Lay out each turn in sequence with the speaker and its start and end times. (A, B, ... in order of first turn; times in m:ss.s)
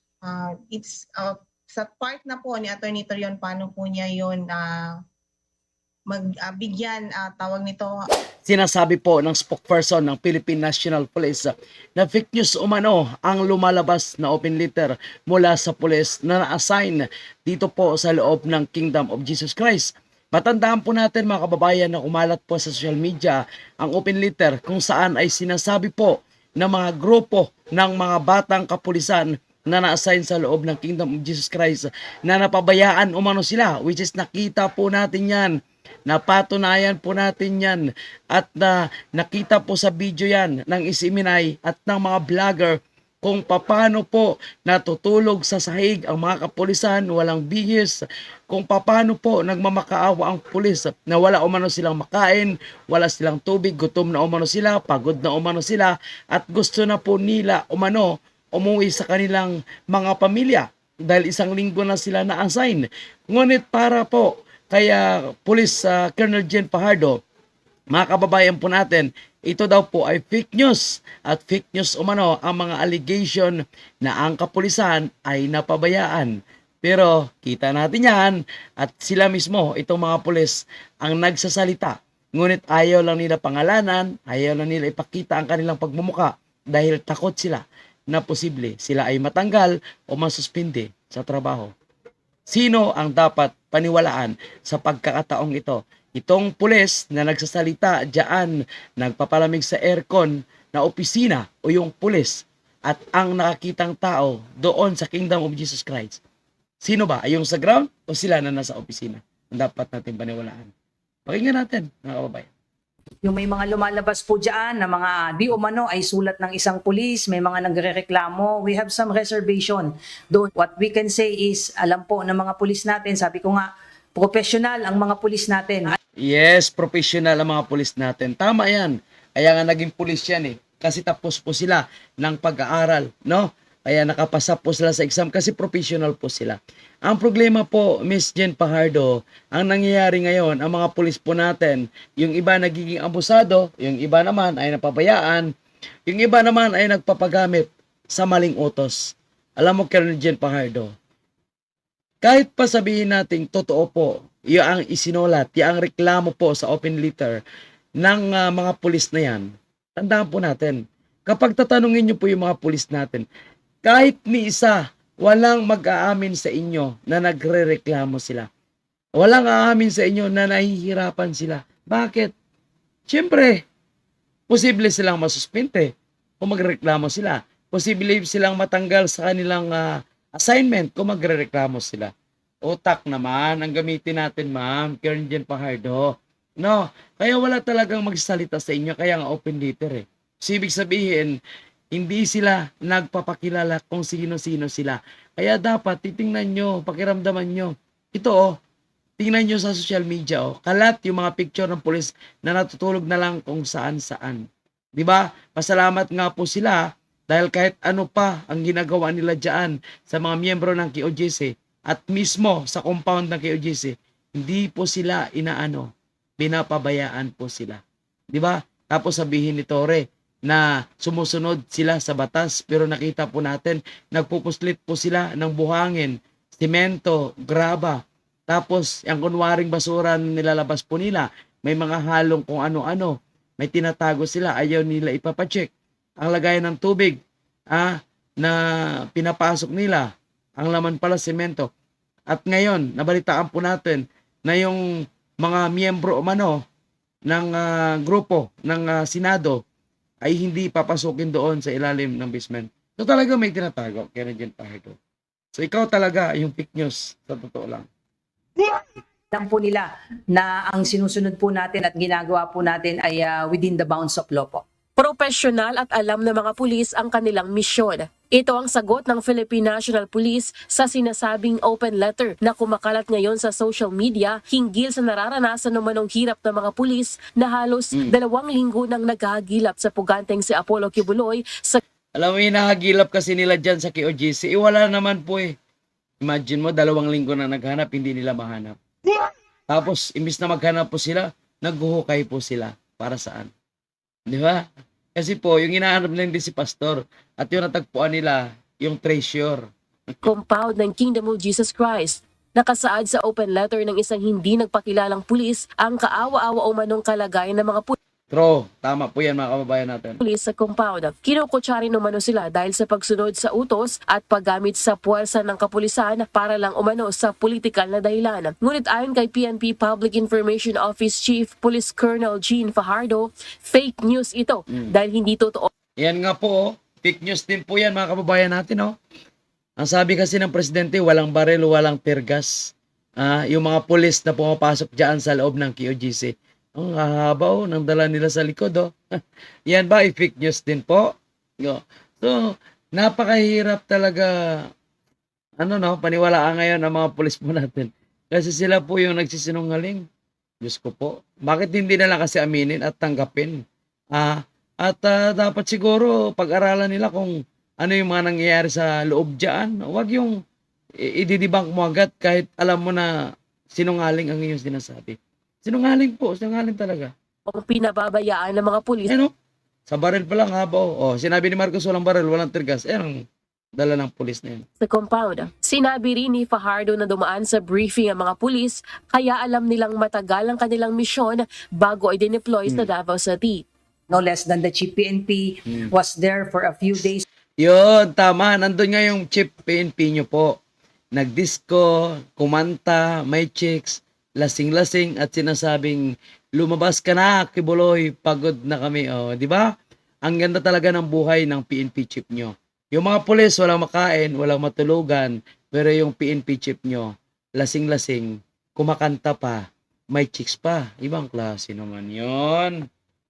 0:00.2-0:04.9 A
0:06.1-0:07.9 A
0:08.4-0:35.5 B
0:36.1-1:07.2 B
1:07.9-1:16.3 B
1:16.8-1:31.7 B
1:32.5-1:46.2 B
1:46.8-1:50.7 B
1:51.3-1:52.5 B
1:53.2-2:06.0 C
2:06.2-2:25.5 B
2:26.1-2:30.9 B
2:32.2-2:37.4 B
2:38.0-2:43.2 B
2:43.8-2:48.5 B
2:49.2-2:52.3 B
2:53.1-2:53.6 B
2:54.5-3:02.1 B
3:02.6-3:11.4 B
3:11.9-3:18.6 B
3:19.2-3:24.4 B
3:25.0-3:37.8 B
3:38.3-3:57.2 B
3:57.7-4:01.7 B
4:02.3-4:06.6 B
4:07.3-4:09.6 B
4:10.2-4:15.0 B
4:15.5-4:17.9 B
4:19.3-4:24.6 C
4:25.0-4:41.8 D
4:42.2-4:45.5 B
4:46.2-4:48.8 B
4:49.7-4:53.5 B
4:54.3-4:59.6 B
5:00.2-5:08.0 D
5:08.3-5:10.2 B
5:10.2-5:25.7 D
5:26.0-5:29.0 B
5:29.8-5:44.6 B
5:45.6-5:50.0 B
5:50.6-5:53.6 B
5:54.1-6:00.3 B
6:01.0-6:03.1 B
6:03.7-6:07.1 B
6:07.5-6:09.2 D
6:09.1-6:09.3 B
6:09.9-6:13.2 B
6:13.8-6:14.6 B
6:14.8-6:23.6 D
6:24.1-6:27.2 C
6:27.6-6:30.6 B
6:31.1-6:36.0 B
6:36.6-6:39.7 B
6:40.2-6:52.8 B